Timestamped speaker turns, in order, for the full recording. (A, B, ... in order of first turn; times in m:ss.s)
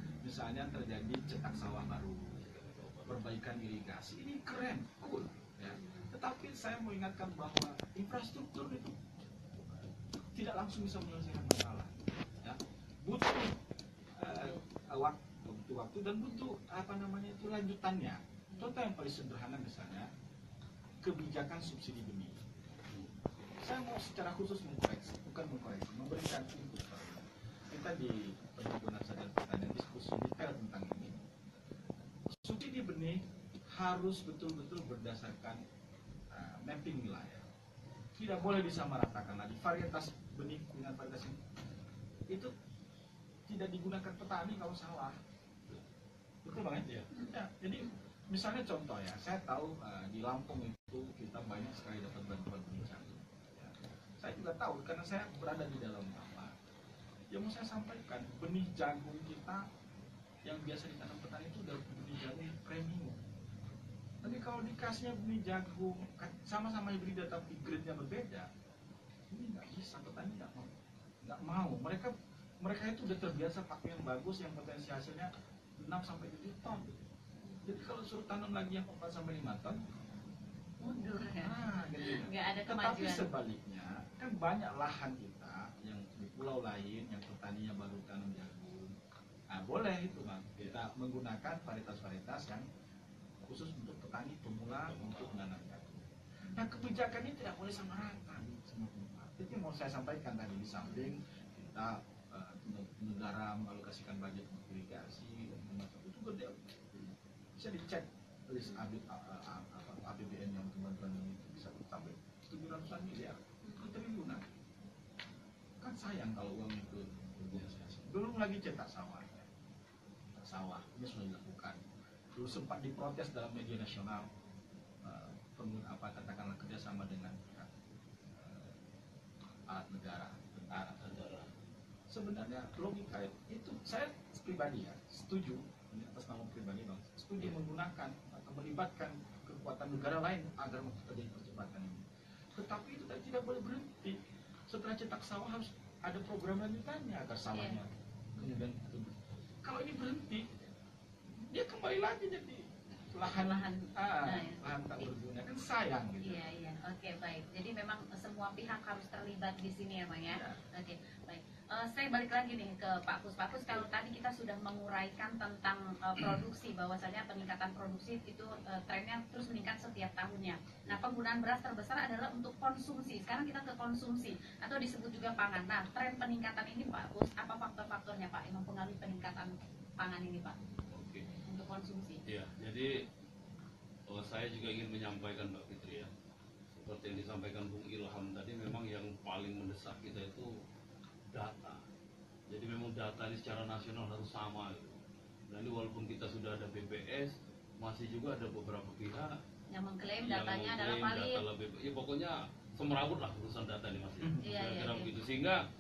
0:00.2-0:02.4 A
0:02.4-0:03.2 B
0:03.1-0:09.0 A
0:05.8-0:06.1 C
0:09.5-0:13.6 A
0:14.2-0:20.1 A
0:14.3-0:14.6 C
0:21.0-0:22.4 A
0:23.6-0:31.2 A
0:32.3-0:35.6 A
0:36.3-0:37.5 A
0:38.2-0:41.4 A
0:43.5-0:45.2 A
0:46.4-0:56.5 A
0:57.3-0:59.7 A
1:00.4-1:03.2 A
1:04.2-1:08.5 A
1:09.3-1:17.1 A
1:17.6-1:19.8 A
1:20.8-1:23.3 C
1:21.4-1:29.0 A
1:29.5-1:32.6 A
1:33.4-1:46.7 A
1:34.9-1:35.4 B
1:40.9-1:41.1 C
1:47.6-1:54.6 A
1:48.7-1:49.0 C
1:55.8-1:59.5 A
2:00.4-2:01.8 A
2:02.4-2:04.3 A
2:05.0-2:08.8 A
2:09.7-2:11.1 A
2:10.8-2:11.5 B
2:12.1-2:22.0 A
2:22.6-2:24.2 A
2:24.7-2:30.6 A
2:27.5-2:27.8 C
2:31.4-2:36.5 A
2:33.2-2:35.1 C
2:36.2-3:00.6 C
2:40.3-2:40.6 A
3:00.9-3:01.4 B
3:01.5-3:02.2 C
3:02.3-3:03.0 B
3:04.1-3:06.1 B
3:06.7-3:10.5 B
3:11.3-3:11.8 B
3:12.5-3:19.4 B
3:19.7-3:21.4 C
3:20.2-3:25.6 B
3:24.4-3:25.1 C